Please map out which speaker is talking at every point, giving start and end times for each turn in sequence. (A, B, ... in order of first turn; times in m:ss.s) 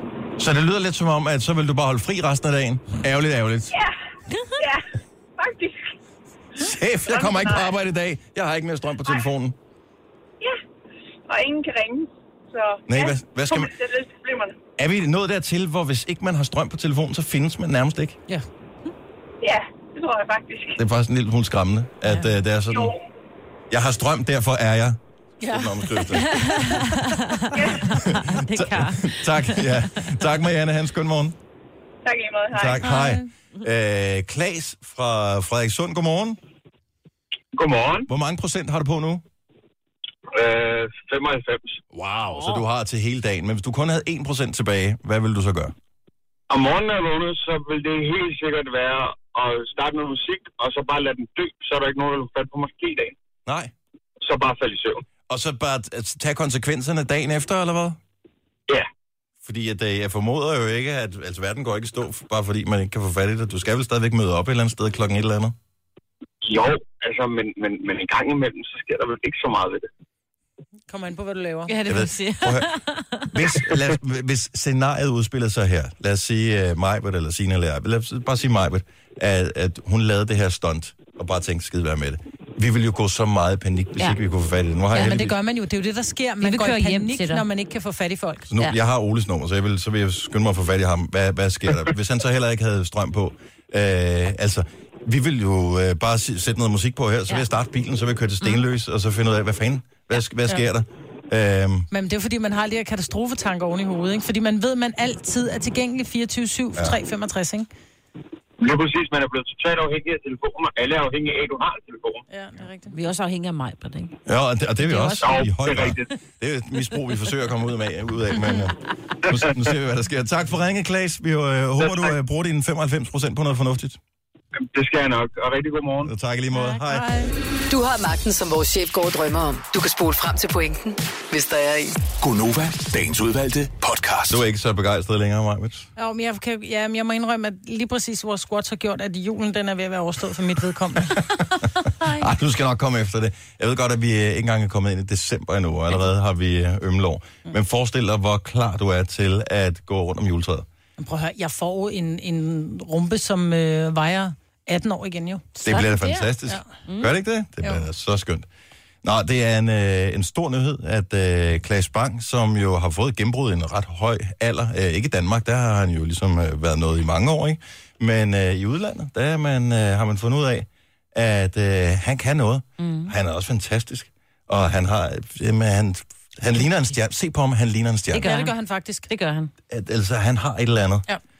0:00.4-0:03.7 A
0:05.4-0:05.8 B
0:06.6-0:09.6 A
0:07.0-0:07.7 B
0:11.3-0:14.5 B
0:12.9-0:13.7 A
0:14.8-0:18.2 A
0:19.4-0:20.8 B
0:20.8-0:22.9 A
0:22.7-0:23.0 B
0:23.7-0:26.4 A
0:25.4-0:27.1 C
0:26.3-0:29.9 D
0:27.8-0:31.4 A
0:32.0-0:32.8 B
0:32.5-0:36.4 A
0:32.8-0:33.2 C
0:37.5-0:38.1 E
0:38.1-0:39.2 A
0:40.3-0:41.8 E
0:42.3-0:45.7 A
0:46.5-0:53.1 E
0:53.4-0:53.7 A
0:54.2-0:55.0 E
0:55.3-0:58.0 A
0:59.4-1:05.6 A
1:06.4-1:09.9 E
1:10.9-1:11.7 C
1:11.7-1:13.3 D
1:11.9-1:12.7 A
1:13.3-1:25.4 A
1:24.9-1:28.5 C
1:26.4-1:27.4 D
1:28.5-1:41.9 A
1:41.9-1:47.7 C
1:48.6-1:52.2 E
1:52.3-1:52.9 C
1:52.9-1:54.2 D
1:54.3-2:04.0 A
1:54.8-1:55.4 D
1:55.2-1:56.1 E
2:01.8-2:02.1 E
2:04.5-2:06.1 E
2:06.0-2:07.2 A
2:06.5-2:07.3 C
2:07.7-2:12.0 F
2:12.2-2:14.4 G
2:14.3-2:15.9 A
2:16.0-2:21.2 C
2:22.0-2:22.3 D
2:22.0-2:30.6 A
2:31.0-2:35.5 C
2:35.6-2:36.3 D
2:35.6-2:38.5 A
2:36.9-2:37.1 D
2:39.0-2:58.3 A
2:52.8-2:53.1 D
2:58.1-2:58.5 D
2:58.2-2:59.1 C
2:59.1-2:59.5 D
2:59.7-3:01.1 A